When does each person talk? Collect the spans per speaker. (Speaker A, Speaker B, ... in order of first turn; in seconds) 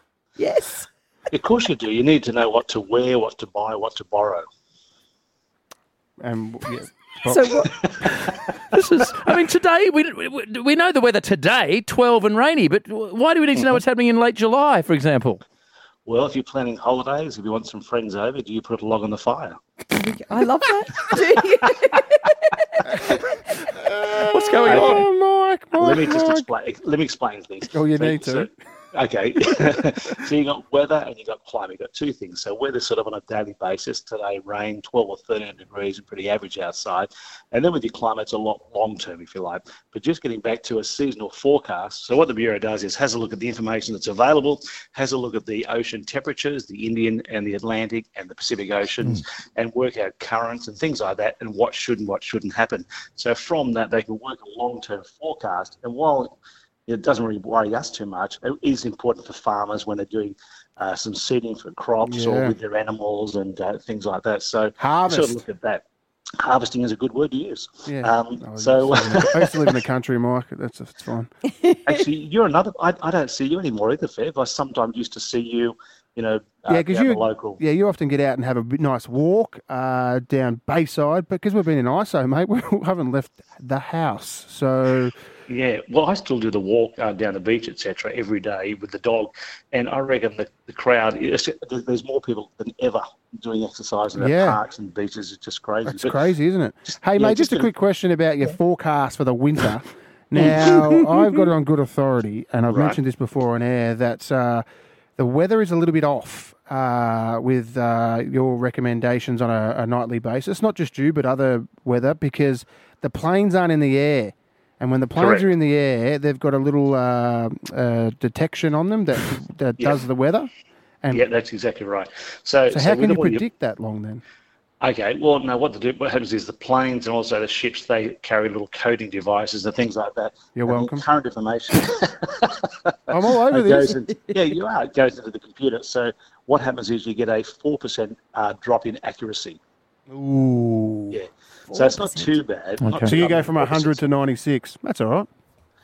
Speaker A: 0.4-0.9, 7.3-7.7, 19.9-23.3, 141.7-142.4
Speaker B: 1.3-4.5, 16.1-19.6, 24.7-25.0, 25.8-56.4, 56.9-65.8, 66.4-69.8, 71.8-77.6, 85.5-96.2, 97.2-97.7, 100.4-101.1, 102.7-103.0, 115.2-115.5, 119.8-120.1, 121.1-123.4, 124.8-132.9, 133.5-139.6, 141.1-144.0
Speaker C: 6.2-7.5, 23.7-26.5, 27.7-28.5, 62.1-62.6, 64.8-65.4, 67.8-71.3, 76.7-85.2, 94.2-94.6, 95.9-104.6, 105.2-120.5, 122.7-124.2, 130.6-131.1, 133.1-133.9, 140.1-141.2, 143.0-145.3
Speaker D: 8.1-15.4, 24.2-25.0, 142.8-143.1